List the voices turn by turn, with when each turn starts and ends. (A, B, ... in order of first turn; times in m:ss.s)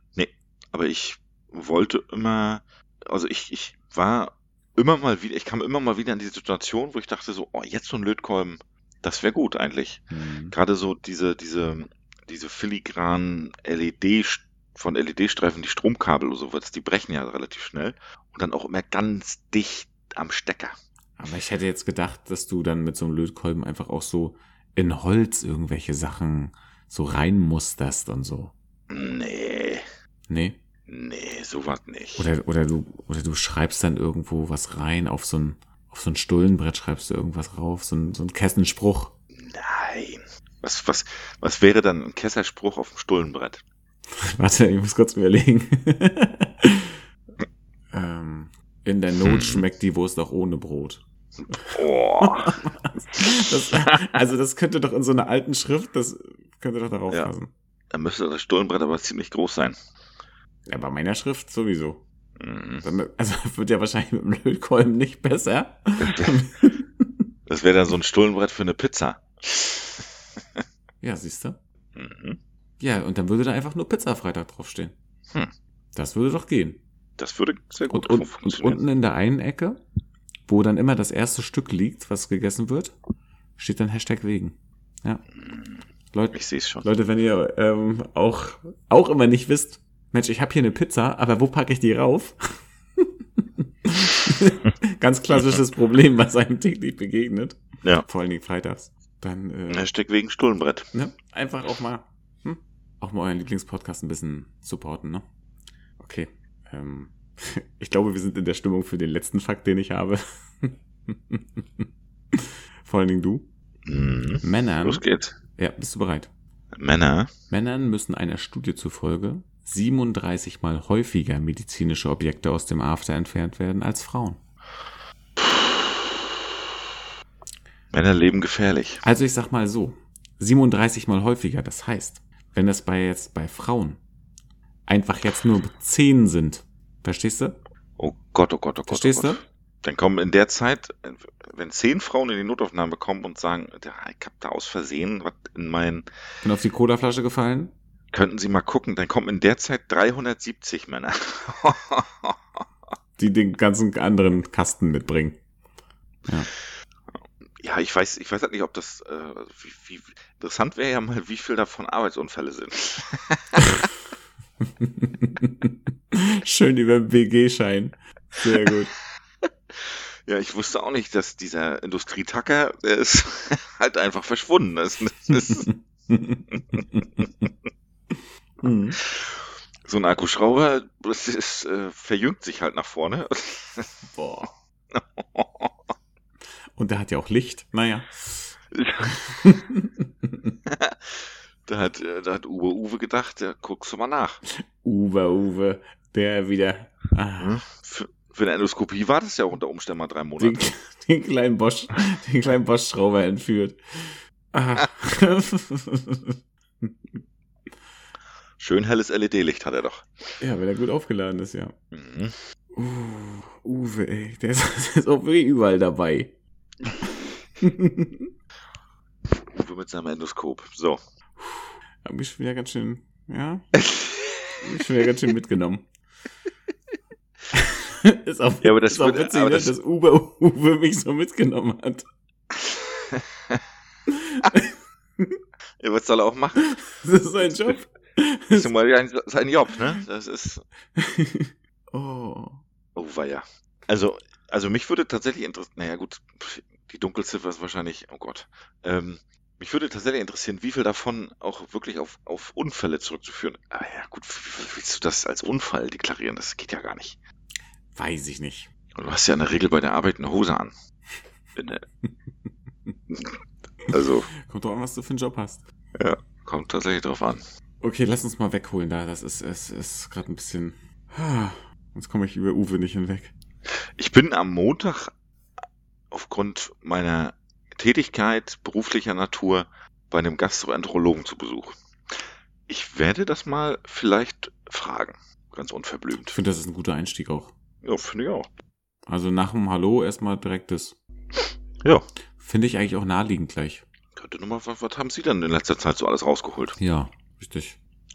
0:00.2-0:20.8 A
0:10.1-0:10.5 B
0:21.2-0:28.5 B
0:28.9-0:29.8 A
0:30.3-0:30.6 B
0:30.9-0:32.3 A
0:32.2-0:39.1 B
0:39.3-0:43.6 A
0:44.1-0:47.0 B
0:47.9-0:51.0 B
0:49.2-0:49.6 A
0:51.5-0:57.5 B
0:51.7-0:52.6 A
0:57.9-0:59.8 A
1:00.7-1:02.0 B
1:02.4-1:02.8 A
1:02.8-1:07.2 B
1:06.0-1:06.4 A
1:07.5-1:10.6 A
1:11.0-1:11.6 B
1:11.9-1:12.4 A
1:12.8-1:14.9 B
1:15.9-1:16.8 B
1:17.2-1:18.8 A
1:17.9-1:19.8 B
1:20.5-1:22.9 B
1:23.6-1:25.2 B
1:25.4-1:25.8 A
1:26.1-1:39.9 B
1:26.3-1:26.8 A
1:39.7-1:40.9 A
1:40.9-1:45.2 B
1:46.0-1:53.5 B
1:53.8-1:55.4 A
1:54.4-1:55.0 B
1:55.6-1:56.3 B
1:56.7-1:57.3 A
1:57.5-2:04.4 B
2:05.4-2:06.3 A
2:07.9-2:09.0 A
2:09.0-2:14.0 B
2:14.9-2:17.6 B
2:18.0-2:26.1 A
2:18.9-2:19.4 B
2:26.4-2:27.7 B
2:28.1-2:32.6 A
2:33.2-2:35.4 B
2:37.6-2:43.8 A
2:44.8-2:48.9 B
2:49.7-2:55.7 A
2:55.5-2:57.1 B
2:56.7-2:57.5 A
2:58.6-2:59.0 B
2:59.0-3:04.0 A
3:04.1-3:04.5 B
3:04.9-3:05.9 A
3:06.8-3:10.6 B
3:08.7-3:09.2 A
3:10.6-3:14.4 A
3:14.5-3:17.6 B
3:17.4-3:20.6 A
3:20.4-3:26.9 B
3:28.6-3:30.1 A
3:30.4-3:31.7 B
3:31.9-3:32.4 A
3:32.7-3:36.3 B
3:37.6-3:38.3 B
3:39.3-3:41.0 A
3:41.4-3:43.8 B
3:43.8-3:44.6 A
3:44.6-3:45.9 B
3:47.5-3:52.0 B
3:48.6-3:49.7 A
3:52.5-3:53.6 A
3:54.1-3:55.4 B
3:55.8-3:56.8 A
3:56.6-3:58.7 B
3:57.4-3:57.8 A
3:58.5-4:00.6 A
4:01.0-4:02.6 B
4:02.9-4:17.2 A
4:17.9-4:18.7 B
4:18.9-4:20.7 A
4:21.6-4:21.8 A
4:23.1-4:23.4 A
4:23.9-4:24.3 A
4:23.9-4:25.6 B
4:25.9-4:27.4 A
4:27.8-4:33.3 B
4:33.7-4:35.1 A
4:36.1-4:46.4 A
4:46.2-4:47.5 B
4:47.8-4:48.5 A
4:49.1-4:51.0 B
4:52.4-4:53.8 B
4:54.2-4:56.8 A
4:56.8-4:57.8 B